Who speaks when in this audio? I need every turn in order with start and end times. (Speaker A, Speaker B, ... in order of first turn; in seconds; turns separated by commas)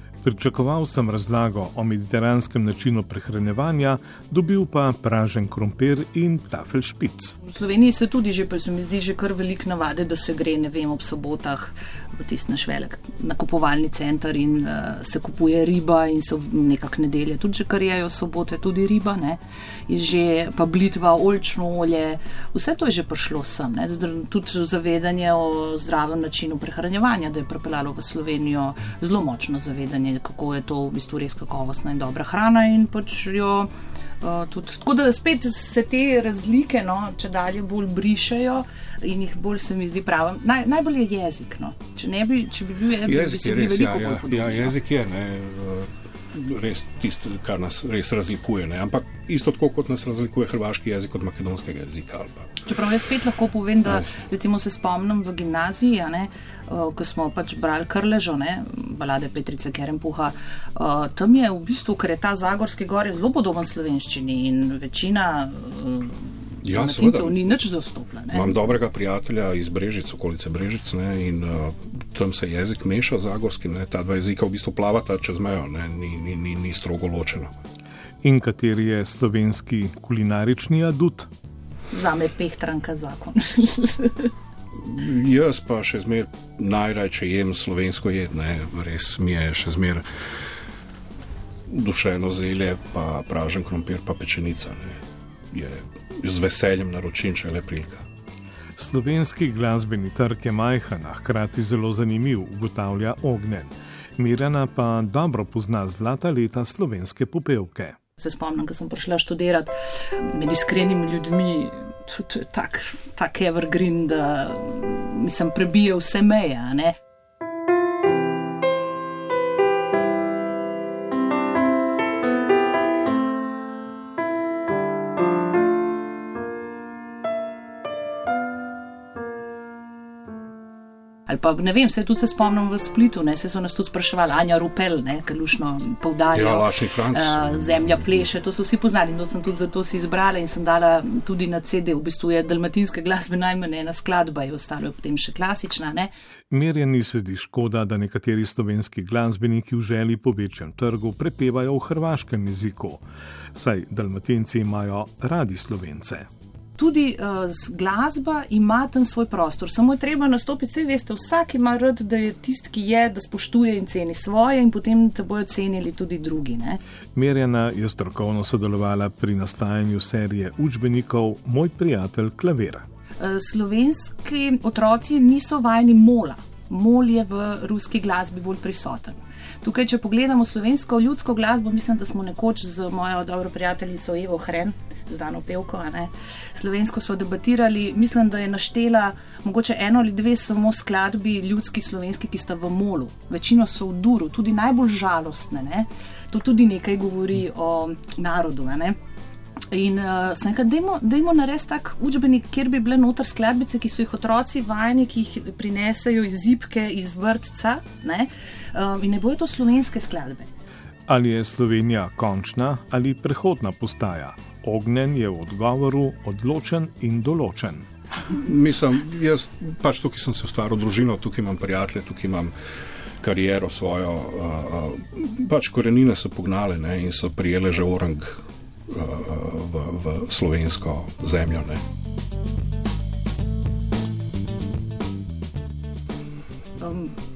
Speaker A: 0.2-7.3, Speaker B: 7.4-33.7, Speaker B: 34.2-44.8, Speaker C: 43.0-52.5, Speaker B: 52.6-68.6, Speaker C: 66.6-67.4, Speaker C: 68.3-77.5, Speaker A: 78.2-81.3, Speaker B: 81.9-84.3, Speaker C: 84.8-90.0, Speaker C: 91.7-95.0, Speaker C: 95.5-98.0, Speaker A: 98.8-108.0, Speaker B: 108.2-116.9, Speaker B: 131.3-146.1, Speaker C: 136.3-138.2, Speaker A: 146.5-153.0, Speaker A: 153.5-156.3, Speaker B: 156.8-166.8, Speaker A: 167.2-172.8, Speaker B: 173.2-199.0, Speaker B: 199.7-210.5, Speaker A: 211.1-217.9, Speaker C: 218.3-222.5, Speaker C: 223.2-231.8, Speaker B: 236.8-237.1